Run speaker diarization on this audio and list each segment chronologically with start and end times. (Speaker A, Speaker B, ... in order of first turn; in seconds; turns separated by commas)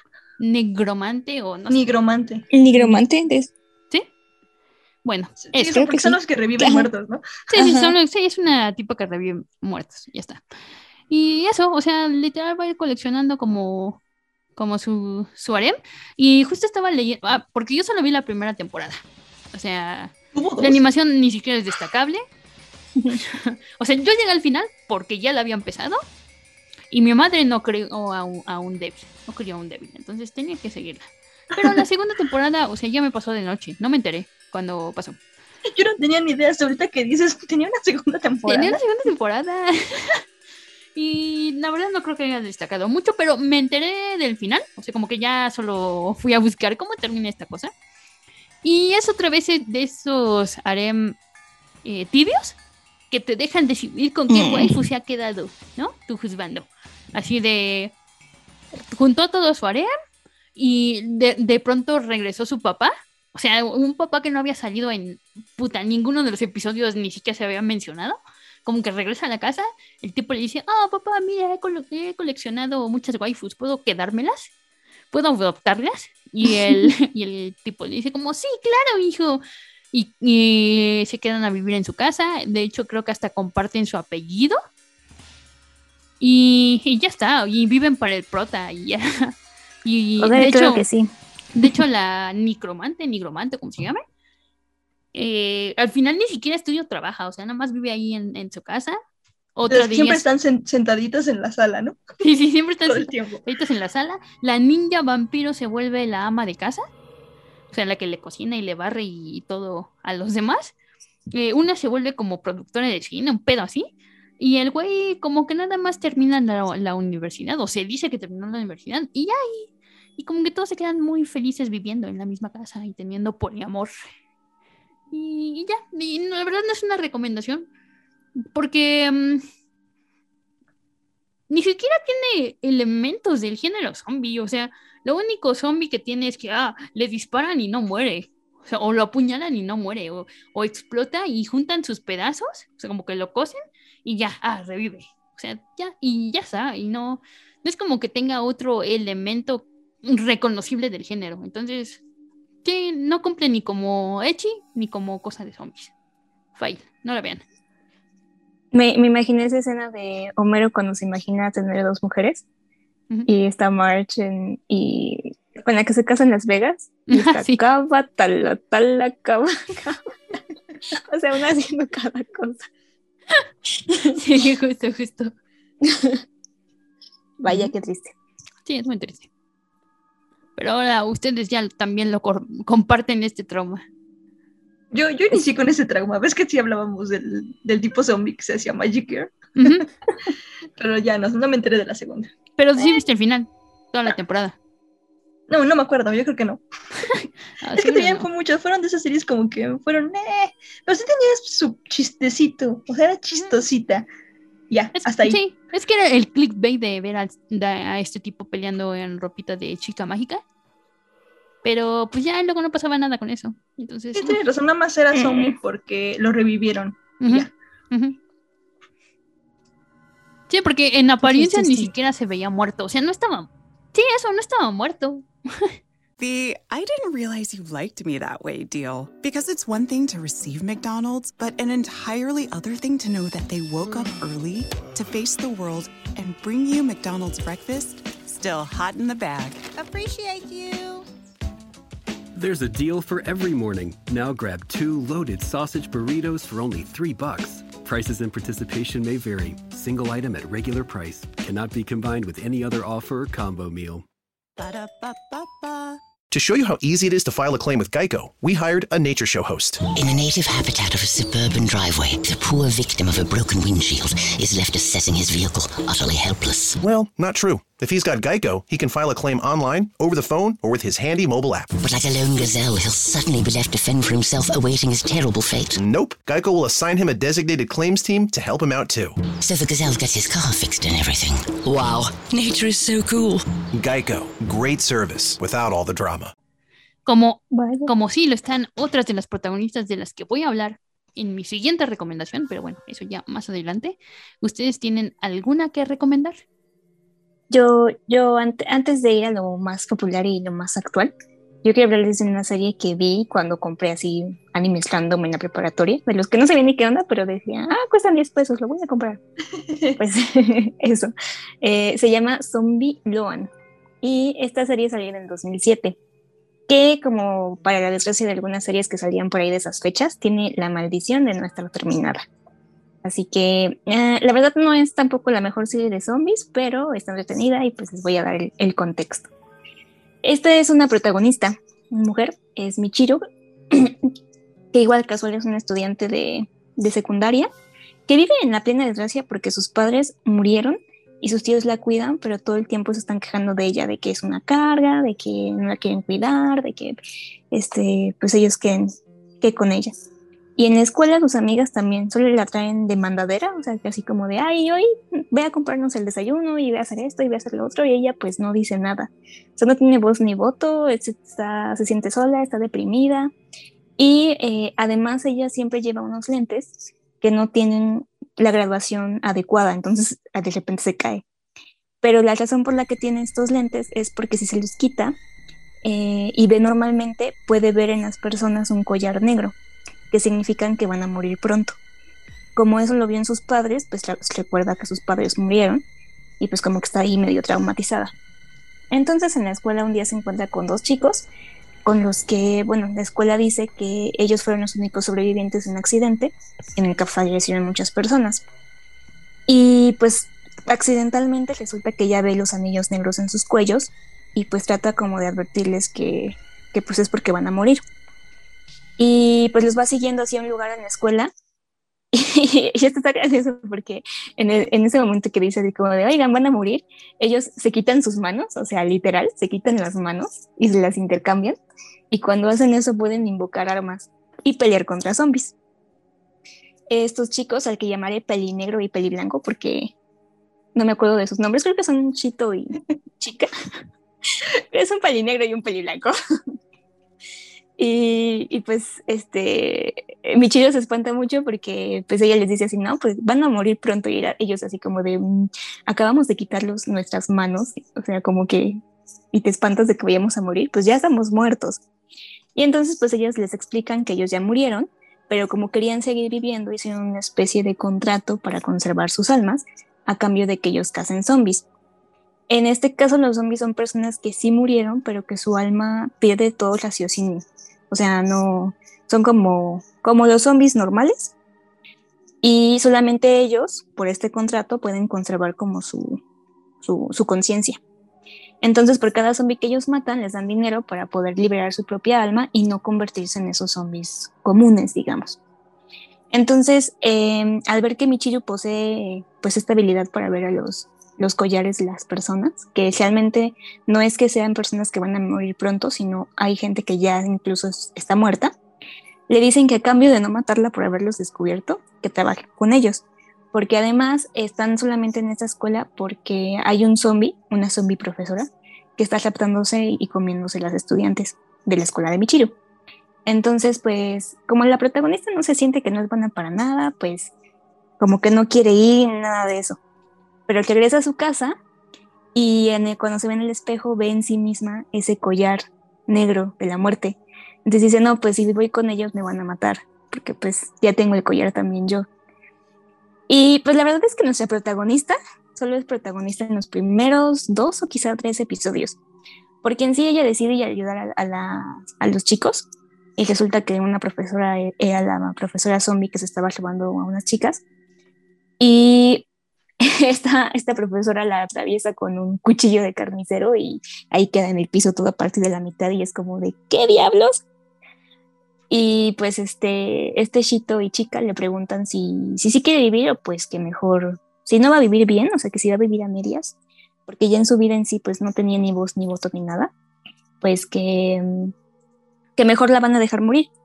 Speaker A: 0.4-1.8, Speaker B: 1.7-2.5, Speaker C: 2.5-3.5, Speaker A: 5.0-5.8, Speaker B: 5.4-7.2, Speaker C: 5.6-6.9, Speaker A: 7.5-10.4, Speaker C: 7.5-8.0, Speaker A: 11.1-14.0, Speaker A: 14.6-19.0, Speaker A: 19.5-22.2, Speaker B: 20.3-20.8, Speaker A: 23.2-26.0, Speaker A: 26.9-35.2, Speaker B: 31.6-31.8, Speaker B: 35.7-38.8, Speaker A: 38.4-40.2, Speaker A: 40.9-47.7, Speaker A: 48.6-51.1, Speaker A: 51.8-52.5, Speaker A: 53.1-57.9, Speaker C: 54.3-54.8, Speaker A: 58.9-59.9, Speaker A: 60.5-74.5, Speaker A: 75.1-79.4, Speaker A: 79.9-84.6, Speaker A: 86.2-90.8, Speaker C: 90.2-91.1, Speaker A: 91.5-94.0, Speaker A: 95.1-99.0, Speaker A: 99.5-100.2, Speaker B: 99.7-102.0, Speaker A: 102.2-106.8, Speaker B: 102.8-103.4, Speaker A: 107.7-110.7, Speaker A: 111.3-123.9, Speaker A: 125.1-127.7, Speaker A: 128.4-129.4, Speaker A: 131.5-152.0, Speaker A: 152.6-155.9, Speaker A: 156.6-157.4, Speaker C: 158.7-162.4, Speaker C: 163.3-170.0, Speaker A: 167.1-167.6, Speaker C: 170.9-172.7, Speaker A: 173.9-175.3, Speaker C: 175.8-176.2, Speaker C: 177.4-178.1, Speaker A: 178.6-179.3, Speaker A: 180.6-183.8, Speaker B: 184.9-189.7, Speaker A: 189.6-189.8, Speaker B: 190.8-192.3, Speaker A: 192.6-194.6, Speaker B: 195.5-196.6, Speaker A: 197.6-198.2, Speaker B: 197.8-204.1, Speaker B: 204.7-205.4, Speaker A: 205.0-210.4, Speaker A: 211.6-214.4, Speaker B: 214.2-217.5, Speaker C: 215.1-215.5, Speaker A: 217.2-218.2, Speaker A: 220.5-225.7, Speaker C: 221.2-221.9, Speaker D: 226.2-241.0, Speaker E: 242.3-254.1, Speaker D: 254.6-255.9, Speaker F: 256.3-259.8, Speaker G: 259.9-266.8, Speaker F: 266.8-271.8, Speaker G: 271.8-275.8, Speaker F: 275.8-279.2, Speaker G: 279.4-283.4, Speaker F: 283.7-286.3, Speaker A: 287.1-296.4, Speaker C: 287.5-287.9, Speaker C: 297.5-301.1, Speaker C: 301.6-309.2, Speaker B: 309.7-309.9, Speaker C: 310.0-313.5, Speaker C: 314.0-316.0, Speaker C: 316.7-322.2, Speaker C: 323.0-329.3, Speaker C: 330.2-333.9, Speaker C: 334.7-337.5, Speaker C: 338.1-347.0, Speaker C: 347.5-348.9, Speaker C: 349.4-349.9, Speaker C: 350.6-363.3, Speaker C: 364.0-371.2, Speaker C: 372.0-375.2, Speaker C: 375.8-379.6, Speaker C: 380.1-381.8, Speaker C: 382.6-385.8, Speaker C: 386.4-388.1, Speaker C: 388.9-391.3, Speaker C: 391.8-398.4, Speaker C: 399.5-407.8, Speaker C: 409.0-411.3, Speaker C: 412.1-421.6, Speaker C: 422.1-425.5, Speaker C: 426.9-429.9, Speaker C: 430.7-433.5, Speaker C: 434.7-436.1, Speaker C: 437.8-448.8, Speaker C: 449.3-451.8, Speaker C: 452.5-461.6, Speaker C: 462.5-471.3, Speaker C: 472.4-476.2, Speaker C: 476.8-477.8, Speaker C: 478.6-485.4, Speaker C: 486.3-498.5, Speaker C: 499.3-512.5, Speaker C: 513.2-517.3, Speaker C: 518.0-519.8, Speaker C: 520.5-521.6, Speaker C: 522.3-532.0, Speaker C: 533.3-539.0, Speaker C: 539.6-547.6, Speaker C: 548.6-549.2, Speaker C: 549.8-557.4, Speaker C: 558.7-566.5, Speaker C: 567.1-569.7, Speaker C: 570.4-571.5, Speaker C: 572.4-573.5